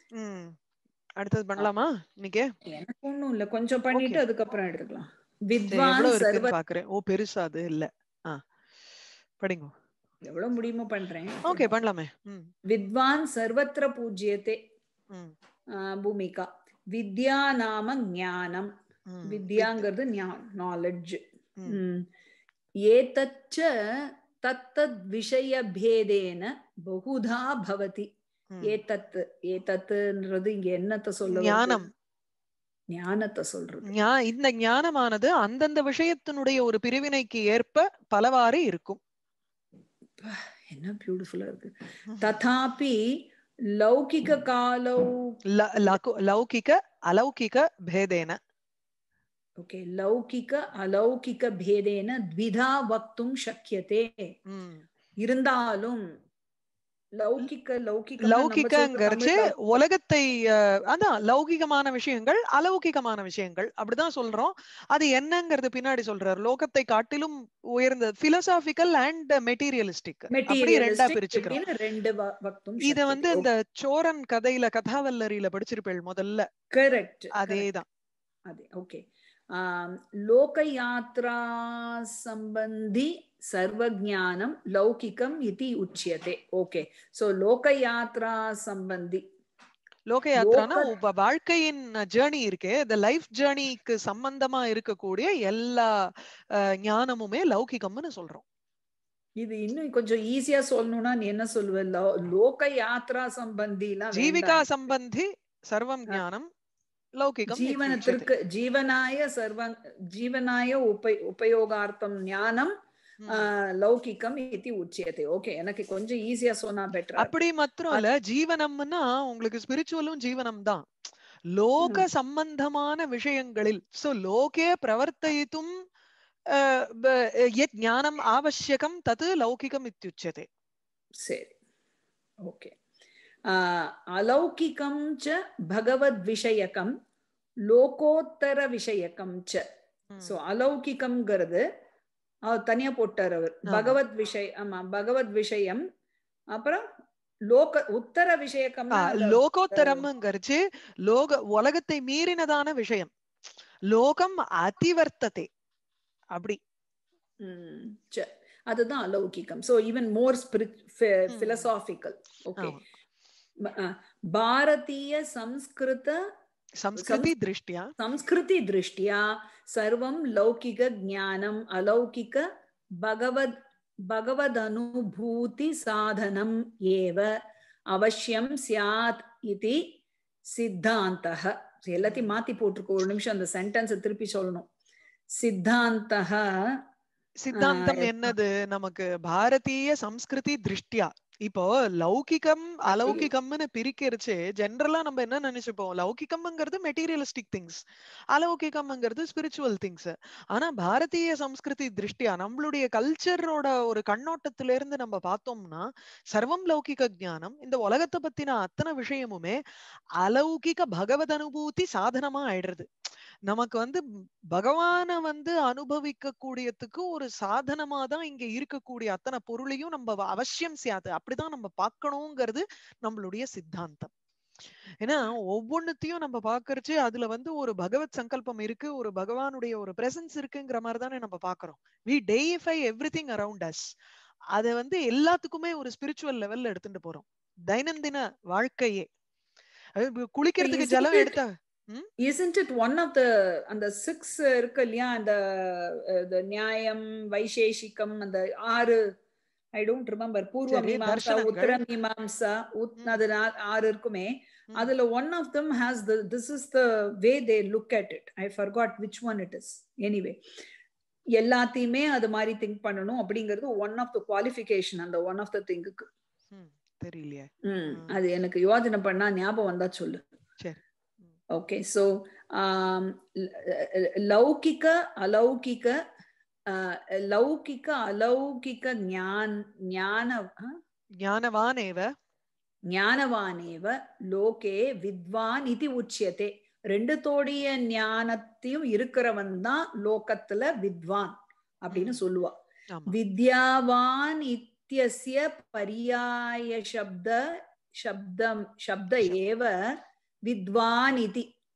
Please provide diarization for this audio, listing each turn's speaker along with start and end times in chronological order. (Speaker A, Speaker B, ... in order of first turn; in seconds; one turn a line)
Speaker A: 0.1-0.6
Speaker A: 1.2-2.5
Speaker B: 2.6-6.5
Speaker A: 3.9-4.2
Speaker A: 5.7-8.4
Speaker A: 9.4-9.7
Speaker B: 10.2-11.7
Speaker A: 11.4-12.5
Speaker B: 12.7-14.6
Speaker B: 15.7-18.7
Speaker A: 19.1-19.9
Speaker B: 19.2-22.1
Speaker B: 22.9-28.1
Speaker A: 28.5-28.8
Speaker B: 28.6-31.8
Speaker A: 31.2-31.9
Speaker B: 32.9-33.9
Speaker A: 33.9-39.0
Speaker B: 40.2-43.2
Speaker A: 42.1-42.3
Speaker B: 43.7-45.1
Speaker A: 45.5-48.4
Speaker B: 49.6-54.3
Speaker A: 54.5-54.8
Speaker B: 55.2-56.0
Speaker B: 57.2-59.5
Speaker A: 58.2-71.6
Speaker B: 70.3-73.5
Speaker A: 72.8-76.5
Speaker B: 76.7-77.7
Speaker A: 77.3-77.8
Speaker B: 78.5-89.2
Speaker A: 90.1-98.4
Speaker B: 90.4-90.9
Speaker B: 99.4-104.6
Speaker A: 104.1-106.5
Speaker A: 107.2-108.3
Speaker B: 107.5-112.7
Speaker A: 113.2-113.5
Speaker B: 113.3-117.3
Speaker A: 117.2-120.9
Speaker A: 121.5-125.7
Speaker B: 121.8-122.0
Speaker A: 126.5-130.5
Speaker B: 131.2-131.5
Speaker B: 132.4-132.7
Speaker B: 133.5-136.9
Speaker B: 137.7-139.6
Speaker B: 140.2-141.6
Speaker B: 142.5-145.8
Speaker A: 143.7-143.9
Speaker B: 146.5-146.9
Speaker B: 147.5-150.1
Speaker A: 148.9-153.1
Speaker A: 153.9-155.5
Speaker B: 157.4-162.8
Speaker A: 161.3-161.7
Speaker B: 163.6-166.2
Speaker A: 166.8-167.9
Speaker B: 167.0-167.3
Speaker B: 168.0-172.4
Speaker B: 173.0-173.5
Speaker B: 174.0-177.3
Speaker B: 177.9-179.8
Speaker B: 180.5-184.7
Speaker A: 182.0-182.4
Speaker B: 185.4-186.8
Speaker A: 187.4-197.8
Speaker B: 187.5-188.3
Speaker B: 192.8-193.3
Speaker A: 198.3-209.6
Speaker A: 210.2-212.9
Speaker A: 213.5-224.1
Speaker A: 225.0-233.8
Speaker A: 234.5-239.1
Speaker A: 240.0-242.1
Speaker B: 240.6-241.4
Speaker B: 242.2-249.1
Speaker B: 249.7-260.4
Speaker A: 250.7-251.8
Speaker B: 261.4-266.1
Speaker A: 266.5-268.1
Speaker B: 267.6-270.2
Speaker B: 271.6-276.0
Speaker B: 276.7-280.8
Speaker A: 281.2-282.1
Speaker B: 282.9-292.6
Speaker A: 291.9-292.2
Speaker A: 292.9-293.1
Speaker B: 293.1-299.7
Speaker B: 300.4-301.5